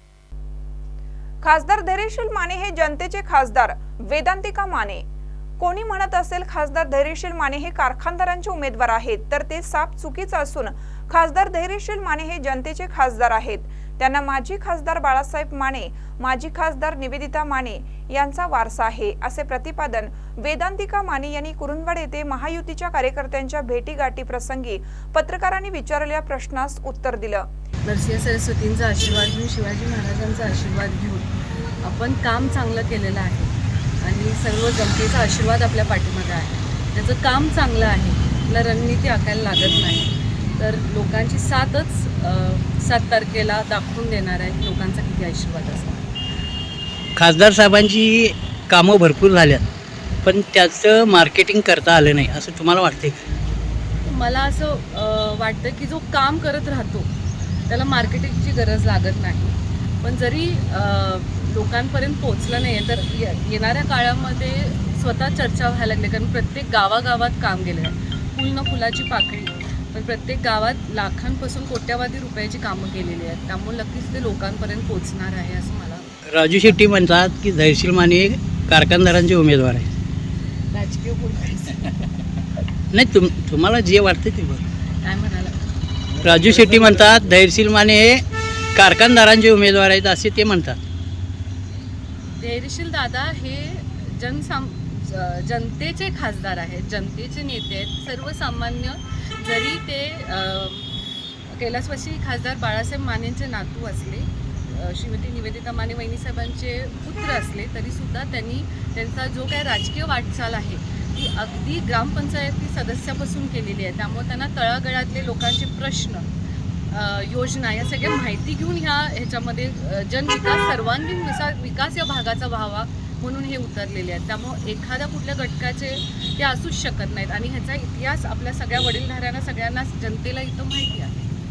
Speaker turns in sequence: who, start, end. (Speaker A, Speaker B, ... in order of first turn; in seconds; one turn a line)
Speaker A: 1.4-5.0
Speaker A: 5.6-27.5
Speaker B: 27.8-46.1
Speaker C: 47.1-49.6
Speaker C: 50.2-53.2
Speaker B: 54.0-57.1
Speaker B: 57.7-76.1
Speaker C: 76.3-79.9
Speaker B: 80.7-82.0
Speaker C: 82.9-84.6
Speaker B: 85.0-85.6
Speaker C: 86.2-88.2
Speaker C: 88.7-90.8
Speaker B: 92.4-100.9
Speaker B: 101.5-116.2
Speaker B: 116.9-131.3